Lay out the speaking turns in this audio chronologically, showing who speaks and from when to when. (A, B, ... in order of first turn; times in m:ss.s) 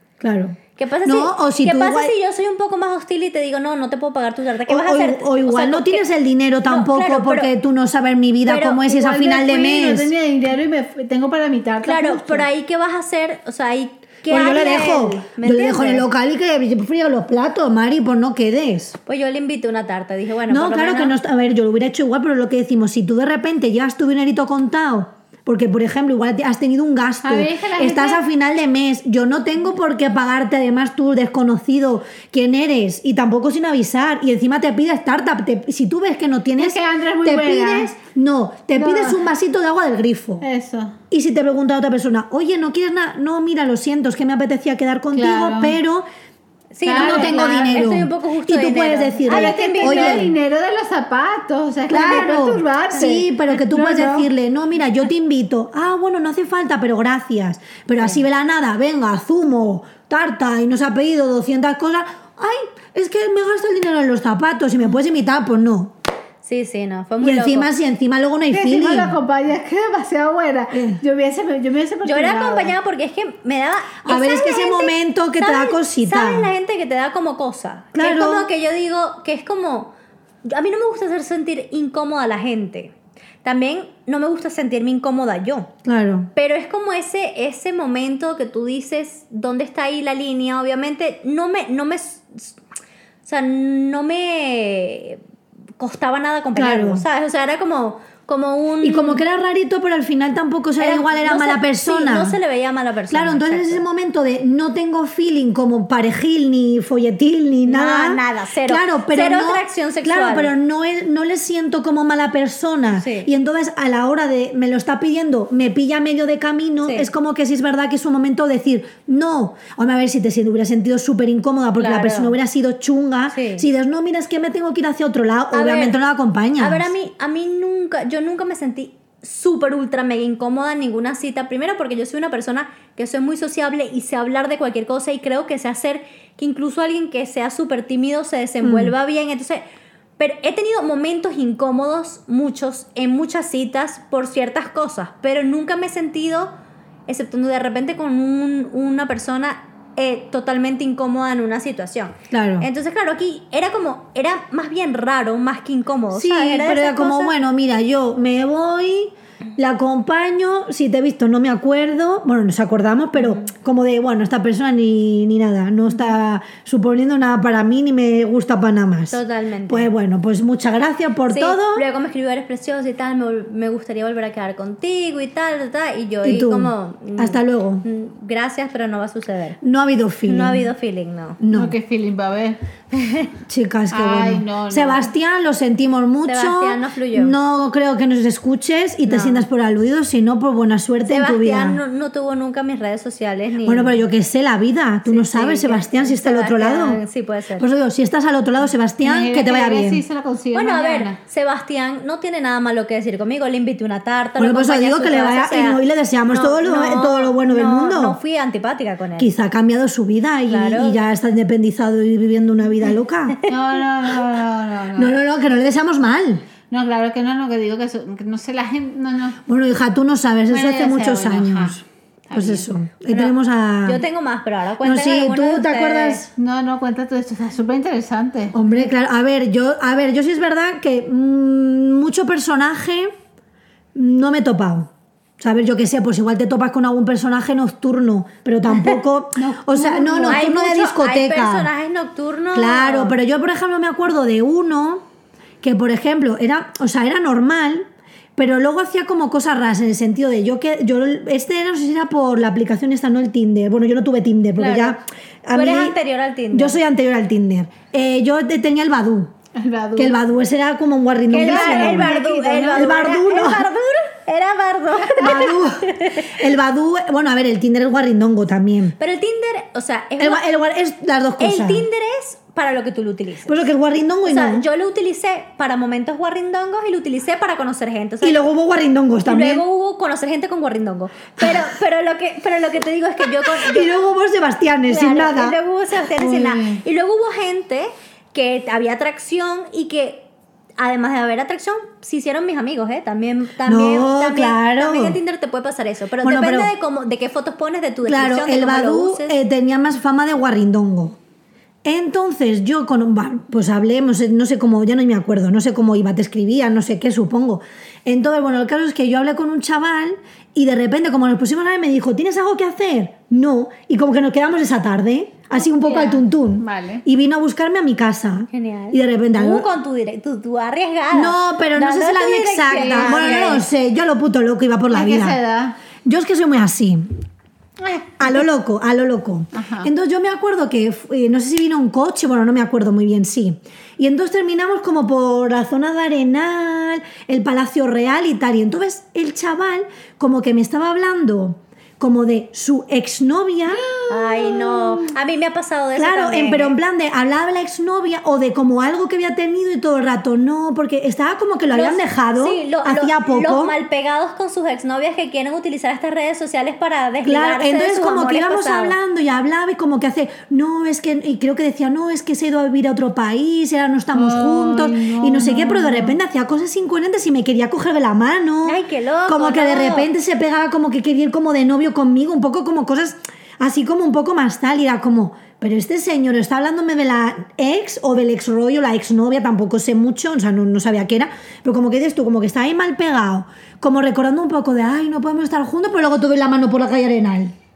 0:00.2-0:02.1 A
0:00.7-0:06.0 B
0:04.7-0:10.1 A
0:06.6-0:07.5 B
0:08.5-0:08.8 B
0:08.7-0:12.4 C
0:11.8-0:16.0 B
0:14.3-0:19.0 A
0:19.0-0:21.1 B
0:20.5-0:40.4 A
0:27.2-0:28.2 C
0:36.6-0:37.9 C
0:38.8-0:39.2 C
0:40.4-0:41.0 C
0:41.1-0:46.0 A
0:45.1-0:45.8 C
0:46.7-0:50.3 B
0:46.8-0:47.7 C
0:46.9-0:50.3 A
0:49.2-0:54.3 C
0:51.9-1:05.9 A
1:06.4-1:07.7 B
1:07.2-1:09.1 A
1:08.5-1:12.7 C
1:10.7-1:11.0 A
1:12.0-1:19.9 B
1:14.0-1:16.5 A
1:17.9-1:18.5 A
1:20.4-1:25.7 B
1:25.8-1:26.3 A
1:26.3-1:32.5 B
1:33.2-1:35.2 B
1:35.8-1:39.2 B
1:36.5-1:37.0 A
1:38.8-1:42.4 A
1:40.8-1:43.8 B
1:43.1-2:06.9 A
1:47.6-1:50.5 B
1:52.9-1:53.3 B
1:56.8-1:57.1 B
2:01.8-2:02.4 B
2:03.3-2:03.7 B
2:05.5-2:06.0 B
2:06.6-2:19.6 B
2:18.6-2:18.9 A
2:20.2-2:26.5 B
2:27.1-2:37.3 B
2:32.3-2:32.7 A
2:36.1-2:51.8 A
2:49.1-2:49.9 B
2:51.3-2:59.6 B
2:56.2-2:57.8 A
2:59.6-3:00.6 A
3:00.3-3:01.4 B
3:01.4-3:01.8 A
3:01.5-3:02.6 C
3:02.9-3:03.3 B
3:03.5-3:11.8 A
3:03.9-3:05.1 C
3:06.2-3:07.4 B
3:09.0-3:09.4 B
3:11.0-3:14.0 B
3:13.6-3:17.0 A
3:15.0-3:17.6 B
3:17.6-3:20.0 A
3:19.0-3:21.2 C
3:20.5-3:29.3 B
3:24.4-3:28.2 A
3:29.2-3:33.4 A
3:30.5-3:31.0 B
3:33.4-3:35.2 C
3:34.9-3:36.4 A
3:36.7-3:39.4 C
3:39.5-3:44.0 A
3:40.5-3:41.8 C
3:42.3-3:42.7 C
3:43.1-3:46.3 B
3:44.8-3:46.3 A
3:46.4-3:48.6 C
3:48.5-3:53.1 A
3:53.9-4:01.7 A
3:59.4-4:00.4 C
4:00.2-4:03.2 B
4:02.5-4:05.0 A
4:05.6-4:16.0 A
4:14.6-4:15.0 B
4:15.5-4:16.8 B
4:16.5-4:19.3 A
4:19.5-4:20.1 C
4:20.0-4:22.1 A
4:21.3-4:26.4 B
4:21.3-4:23.0 C
4:22.7-4:23.7 A
4:25.1-4:29.0 A
4:29.0-4:30.4 B
4:30.2-4:31.8 A
4:31.4-4:33.6 B
4:33.4-4:34.6 A
4:34.2-4:38.5 B
4:38.2-4:39.6 A
4:39.2-4:43.9 B
4:43.4-4:45.6 A
4:44.9-4:59.4 B
4:46.2-4:46.8 C
4:53.6-4:55.2 A
4:56.2-4:56.7 A
4:58.0-5:01.2 A
5:01.8-5:19.7 A
5:15.8-5:17.0 C
5:18.5-5:23.6 B
5:21.1-5:25.4 A
5:22.7-5:23.6 C
5:24.9-5:25.8 C
5:26.0-5:27.1 A
5:27.8-5:28.4 C
5:28.2-5:43.8 A
5:29.5-5:29.9 C
5:43.7-5:45.2 C
5:44.1-5:46.7 B
5:46.0-5:53.8 A
5:51.7-5:59.0 B
5:57.2-6:27.5 A
6:04.1-6:06.2 C
6:08.6-6:10.1 B